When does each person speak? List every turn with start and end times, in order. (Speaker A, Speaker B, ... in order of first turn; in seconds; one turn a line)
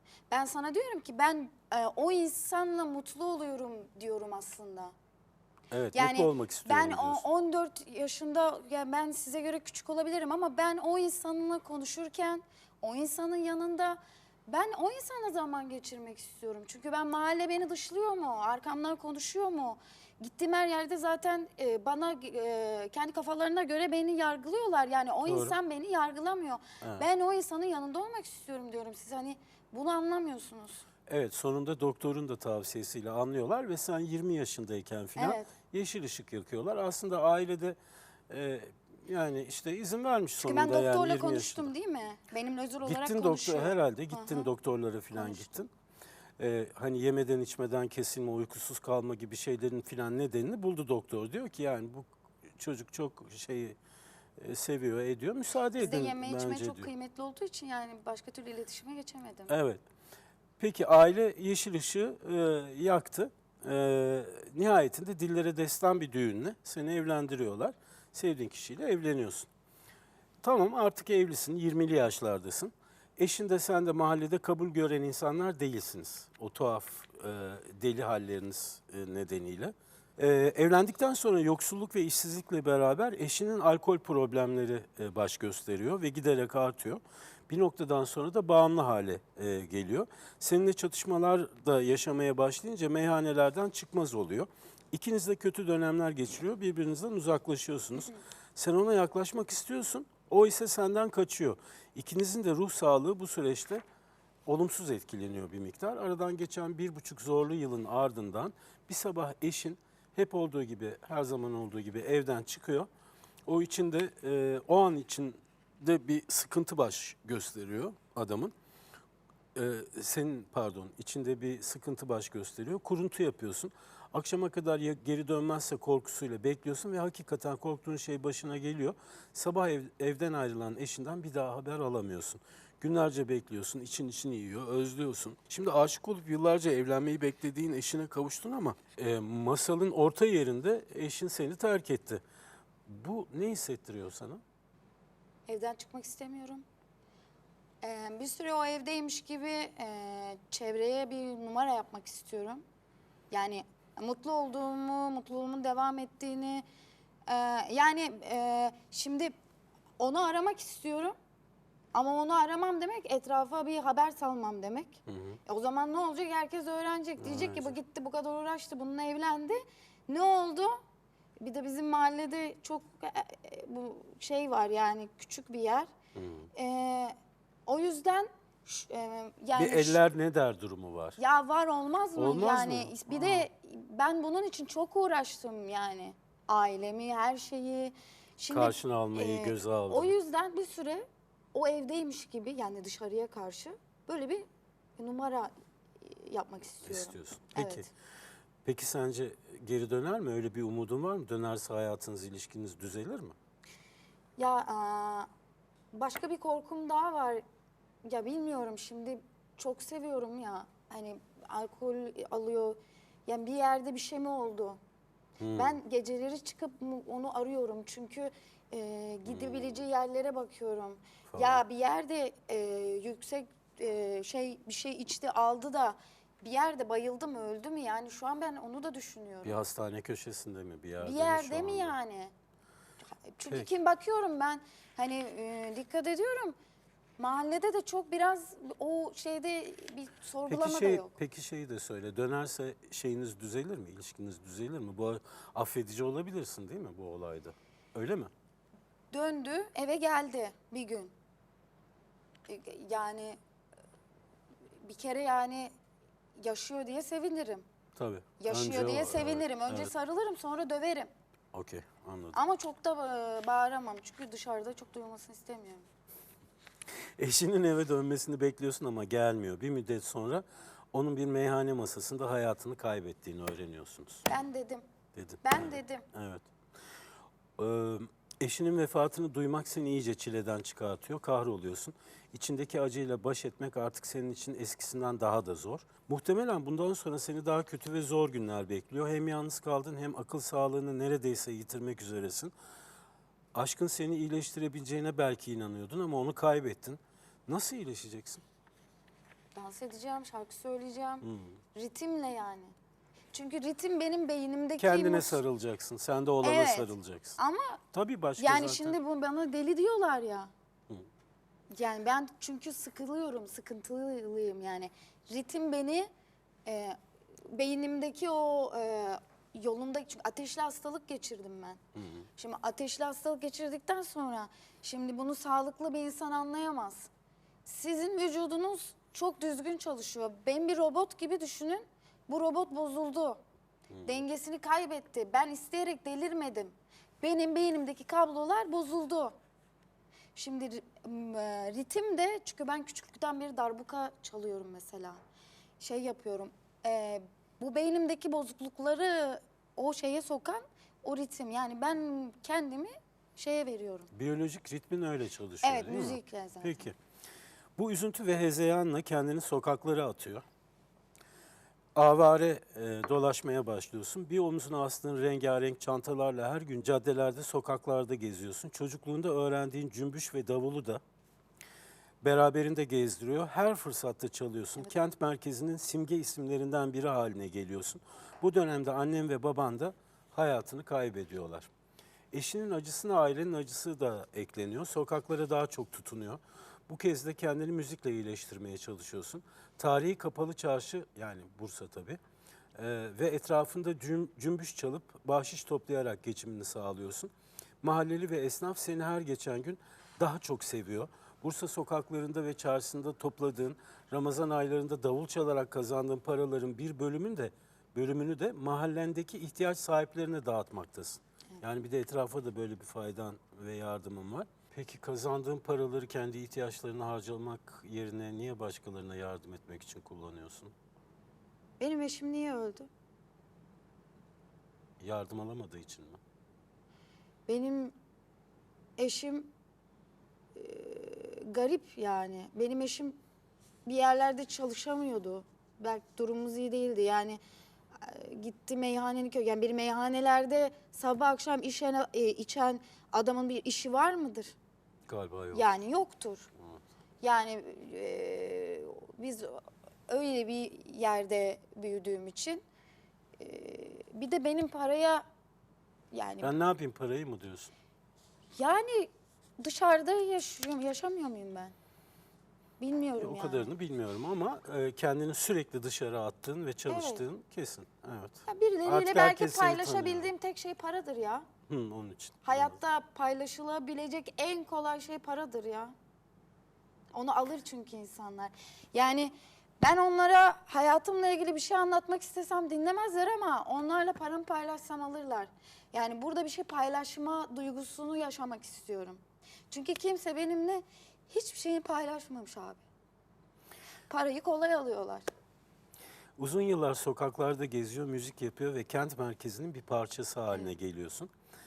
Speaker A: 0.3-4.9
Speaker B: 5.7-7.2
Speaker A: 5.9-30.9
Speaker B: 25.3-25.6
Speaker B: 31.1-37.8
Speaker A: 35.2-35.5
Speaker B: 38.3-41.7
Speaker A: 40.4-44.5
Speaker B: 42.8-45.7
Speaker A: 45.1-45.5
Speaker B: 46.4-53.8
Speaker B: 54.4-56.9
Speaker A: 55.8-59.5
Speaker B: 59.5-59.8
Speaker B: 60.6-69.5
Speaker B: 70.4-103.8
Speaker B: 104.5-112.9
Speaker B: 113.5-118.5
Speaker B: 119.5-142.2
Speaker B: 142.9-144.4
Speaker A: 145.5-146.7
Speaker A: 147.8-152.6
Speaker A: 153.3-156.7
Speaker A: 157.3-159.3
Speaker A: 160.0-161.2
Speaker A: 161.9-170.8
Speaker B: 165.1-165.4
Speaker B: 167.2-167.8
Speaker A: 171.4-175.9
Speaker B: 176.2-176.5
Speaker A: 176.5-177.2
Speaker A: 177.7-180.0
Speaker B: 179.6-181.2
Speaker A: 181.2-197.9
Speaker B: 182.2-183.5
Speaker B: 188.5-190.2
Speaker B: 196.8-197.9
Speaker B: 198.7-203.3
Speaker A: 204.4-205.3
Speaker A: 205.9-207.4
Speaker A: 208.1-214.8
Speaker B: 215.4-215.8
Speaker A: 215.6-229.6
Speaker B: 219.3-219.8
Speaker B: 221.3-221.6
Speaker B: 229.4-232.0
Speaker A: 231.0-232.3
Speaker A: 233.3-236.6
Speaker A: 237.2-241.1
Speaker B: 240.5-248.3
Speaker A: 249.1-251.1
Speaker A: 252.5-253.4
Speaker A: 254.8-255.7
Speaker A: 256.4-257.6
Speaker B: 258.0-259.9
Speaker A: 258.4-261.1
Speaker B: 261.5-262.4
Speaker A: 262.3-265.9
Speaker B: 267.2-274.3
Speaker A: 274.3-274.9
Speaker B: 275.1-276.5
Speaker A: 275.4-276.1
Speaker B: 277.6-292.5
Speaker B: 293.6-298.4
Speaker A: 299.6-302.8
Speaker B: 301.2-301.6
Speaker A: 303.3-305.4
Speaker B: 304.8-307.4
Speaker A: 306.4-307.8
Speaker B: 307.9-309.0
Speaker A: 308.4-310.5
Speaker A: 311.7-316.1
Speaker A: 316.7-321.8
Speaker B: 322.0-322.3
Speaker A: 322.4-327.1
Speaker A: 327.7-333.4
Speaker B: 333.9-334.2
Speaker A: 334.0-339.4
Speaker A: 340.4-345.2
Speaker A: 345.8-354.1
Speaker B: 354.1-357.0
Speaker A: 355.6-356.8
Speaker B: 357.8-360.4
Speaker B: 361.9-371.0
Speaker B: 372.2-381.7
Speaker B: 382.3-392.2
Speaker B: 392.8-397.3
Speaker B: 397.8-420.7
Speaker A: 421.8-422.9
Speaker B: 425.0-426.2
Speaker A: 427.5-427.9
Speaker A: 429.0-429.5
Speaker A: 430.6-433.2
Speaker A: 433.9-437.4
Speaker A: 437.9-444.6
Speaker B: 445.1-445.7
Speaker A: 445.5-446.5
Speaker A: 447.2-452.6
Speaker A: 453.4-455.2
Speaker A: 456.1-456.5
Speaker B: 456.4-457.7
Speaker A: 458.6-461.8
Speaker A: 462.8-463.7
Speaker B: 463.2-470.3
Speaker A: 466.9-467.2
Speaker A: 468.5-471.5
Speaker B: 471.7-472.8
Speaker A: 472.4-475.9
Speaker A: 477.1-492.8
Speaker A: 494.1-495.3
Speaker B: 496.4-501.3